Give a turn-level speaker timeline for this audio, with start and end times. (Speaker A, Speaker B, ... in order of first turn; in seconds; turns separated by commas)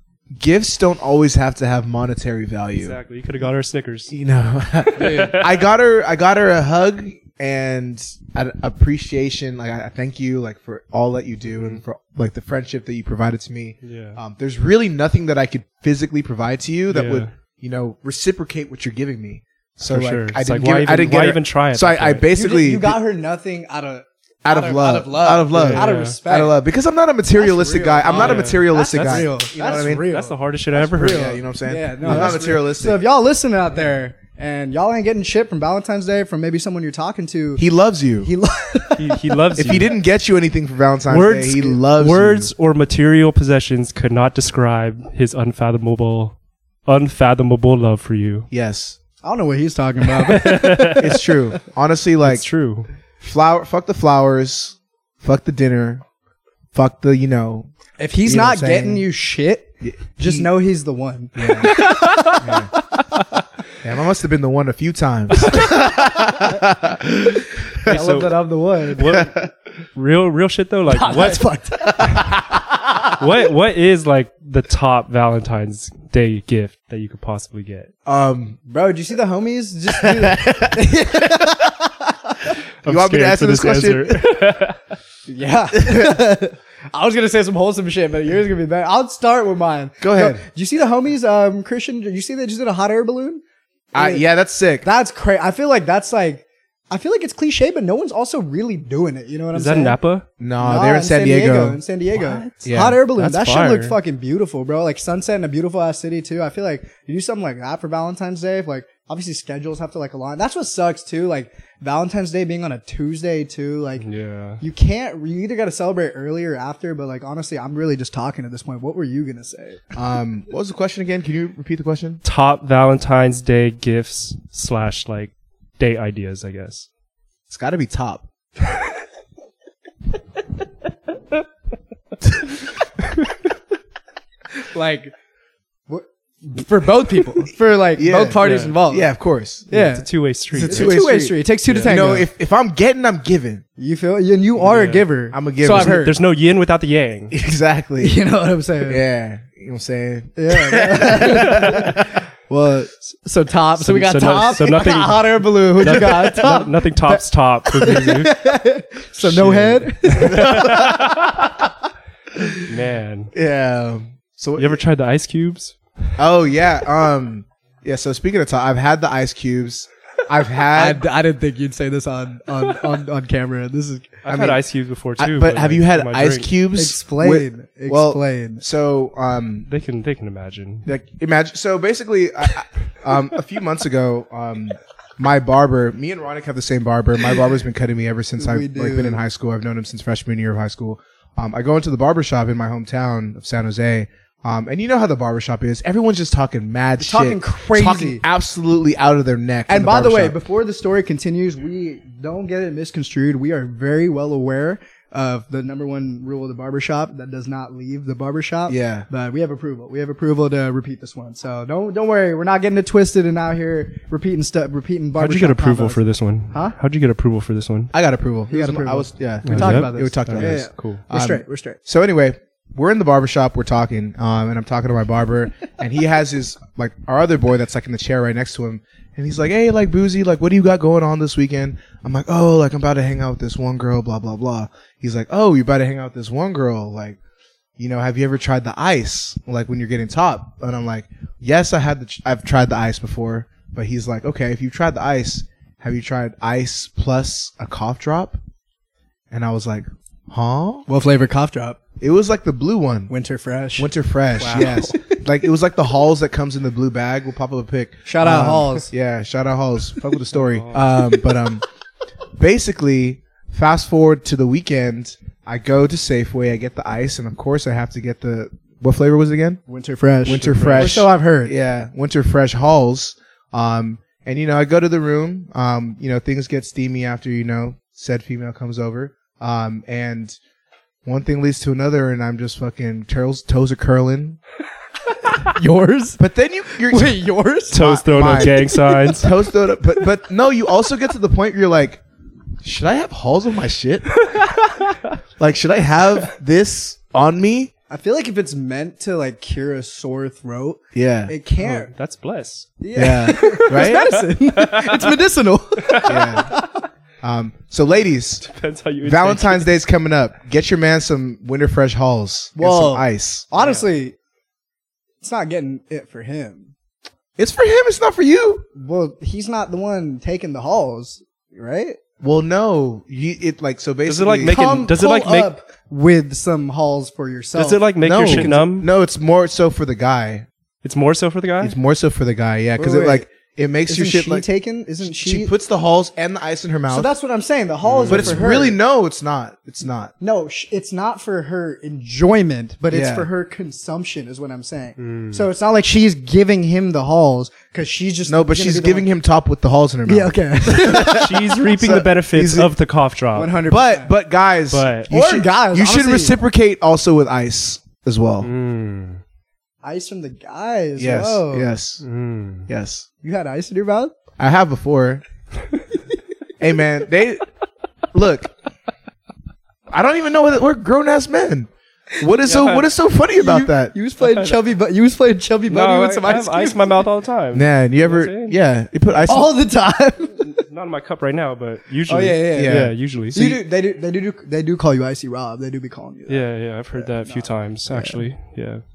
Speaker A: 0.3-3.0, Speaker B: 2.8-4.1, Speaker A: 4.1-23.0, Speaker B: 4.8-5.7, Speaker C: 5.0-5.4, Speaker B: 11.5-11.8, Speaker B: 13.8-14.2, Speaker B: 16.9-17.3, Speaker B: 19.8-22.3, Speaker C: 22.3-26.6, Speaker A: 24.4-30.1, Speaker B: 25.5-26.2, Speaker C: 27.3-37.6, Speaker B: 28.1-31.3, Speaker A: 30.8-33.0, Speaker B: 32.0-32.3, Speaker A: 37.6-38.3, Speaker C: 38.2-39.5, Speaker B: 39.0-39.9, Speaker A: 39.5-42.5, Speaker B: 41.1-48.5, Speaker A: 48.5-49.0, Speaker C: 49.2-51.3, Speaker B: 50.1-51.2, Speaker A: 51.0-52.4, Speaker B: 52.2-52.9, Speaker A: 53.2-56.0, Speaker A: 56.7-57.7, Speaker C: 58.0-62.5, Speaker A: 58.2-59.0, Speaker A: 59.8-60.5, Speaker A: 61.3-61.7, Speaker B: 61.6-63.4, Speaker A: 62.4-62.7, Speaker A: 63.8-68.0, Speaker B: 65.4-65.7, Speaker B: 67.8-69.3, Speaker C: 67.8-69.2, Speaker A: 69.0-69.5, Speaker B: 69.9-71.4, Speaker C: 70.9-72.2, Speaker A: 71.9-72.6, Speaker B: 73.2-77.9, Speaker A: 78.0-78.6, Speaker C: 78.7-82.5, Speaker A: 79.9-81.5, Speaker B: 82.8-84.8, Speaker A: 82.8-84.2, Speaker C: 85.3-93.4, Speaker A: 85.8-86.1, Speaker A: 90.0-90.4, Speaker A: 93.9-94.9, Speaker C: 94.0-94.2, Speaker C: 94.8-100.0, Speaker B: 99.5-100.2, Speaker A: 100.4-101.8, Speaker C: 100.6-114.1, Speaker B: 102.1-104.0, Speaker A: 102.6-103.0, Speaker B: 114.0-114.6, Speaker C: 114.6-119.8, Speaker A: 119.9-122.2, Speaker B: 122.2-126.9, Speaker A: 127.5-128.2, Speaker B: 133.1-133.4, Speaker C: 134.6-135.1, Speaker C: 135.9-139.1, Speaker A: 137.9-139.7, Speaker B: 138.4-138.8, Speaker C: 139.7-140.1, Speaker B: 139.7-140.9, Speaker A: 140.5-143.6, Speaker C: 140.6-142.3, Speaker B: 141.7-142.0, Speaker C: 143.8-146.1, Speaker B: 144.6-145.1, Speaker A: 145.3-146.0, Speaker B: 145.6-147.3, Speaker A: 147.3-148.2, Speaker C: 148.0-149.0, Speaker A: 148.9-152.2, Speaker C: 150.3-160.9, Speaker B: 153.8-158.3, Speaker B: 159.2-161.3, Speaker A: 160.2-161.3, Speaker A: 162.3-162.6, Speaker B: 162.6-163.3, Speaker A: 163.3-164.8, Speaker B: 164.6-165.8, Speaker A: 166.2-171.0, Speaker C: 170.7-174.2, Speaker B: 174.2-176.5, Speaker A: 174.3-174.6, Speaker A: 175.2-179.7, Speaker C: 176.8-178.6, Speaker B: 179.7-180.8, Speaker A: 180.8-200.4, Speaker C: 188.4-189.2, Speaker C: 197.0-198.2, Speaker C: 199.7-216.0, Speaker A: 208.7-209.1, Speaker B: 215.2-217.9, Speaker A: 217.9-237.2, Speaker C: 218.5-221.8, Speaker B: 219.4-221.0, Speaker A: 237.8-248.4, Speaker A: 249.3-250.8, Speaker C: 250.9-251.8, Speaker A: 252.0-253.1, Speaker C: 253.1-255.2, Speaker A: 253.8-261.6, Speaker B: 254.4-254.8, Speaker C: 258.0-258.9, Speaker B: 260.3-261.0, Speaker A: 262.4-269.6, Speaker C: 269.7-271.5, Speaker A: 270.2-280.4, Speaker B: 270.3-271.1, Speaker A: 281.0-284.4, Speaker C: 285.2-286.2, Speaker A: 286.2-287.2, Speaker C: 286.7-289.2, Speaker B: 287.7-289.4, Speaker A: 287.7-292.0, Speaker A: 292.6-294.2, Speaker B: 294.3-295.1, Speaker A: 295.4-297.7, Speaker C: 297.9-301.9, Speaker A: 300.9-301.3, Speaker B: 301.6-302.7, Speaker C: 302.8-306.8, Speaker A: 302.9-304.2, Speaker B: 304.5-305.2, Speaker B: 305.8-306.3, Speaker A: 306.1-306.6, Speaker A: 307.2-308.4, Speaker B: 308.4-309.6, Speaker A: 309.0-313.5, Speaker C: 312.6-314.1, Speaker B: 313.6-313.9, Speaker C: 315.2-316.7, Speaker A: 317.4-318.6, Speaker C: 318.7-322.0, Speaker A: 322.2-324.7, Speaker B: 324.1-325.5, Speaker C: 324.4-328.6, Speaker B: 327.5-328.9, Speaker A: 328.0-330.5, Speaker B: 330.8-331.8, Speaker A: 331.6-334.4, Speaker C: 332.8-333.3, Speaker C: 333.9-335.5, Speaker A: 335.0-337.1, Speaker C: 336.9-338.8, Speaker B: 337.8-338.4, Speaker A: 338.1-340.1, Speaker C: 340.2-349.1, Speaker A: 342.9-343.3, Speaker B: 345.0-345.4, Speaker A: 348.2-352.7, Speaker C: 350.1-351.5, Speaker B: 350.9-353.6, Speaker C: 353.3-354.1, Speaker A: 353.7-358.5, Speaker B: 354.7-355.1, Speaker C: 355.1-356.4, Speaker B: 358.4-359.2, Speaker C: 359.8-361.8, Speaker A: 361.0-362.0, Speaker B: 362.0-362.7, Speaker A: 362.7-363.1, Speaker C: 363.2-364.1, Speaker A: 364.4-365.2, Speaker A: 366.6-367.5, Speaker A: 368.1-368.5, Speaker A: 369.9-373.9, Speaker B: 372.4-372.9, Speaker C: 373.4-377.0, Speaker B: 374.2-374.6, Speaker B: 375.7-378.6, Speaker A: 377.5-379.5, Speaker C: 379.3-380.6, Speaker B: 380.4-383.6, Speaker C: 382.1-388.2, Speaker A: 382.5-382.9, Speaker B: 386.3-388.8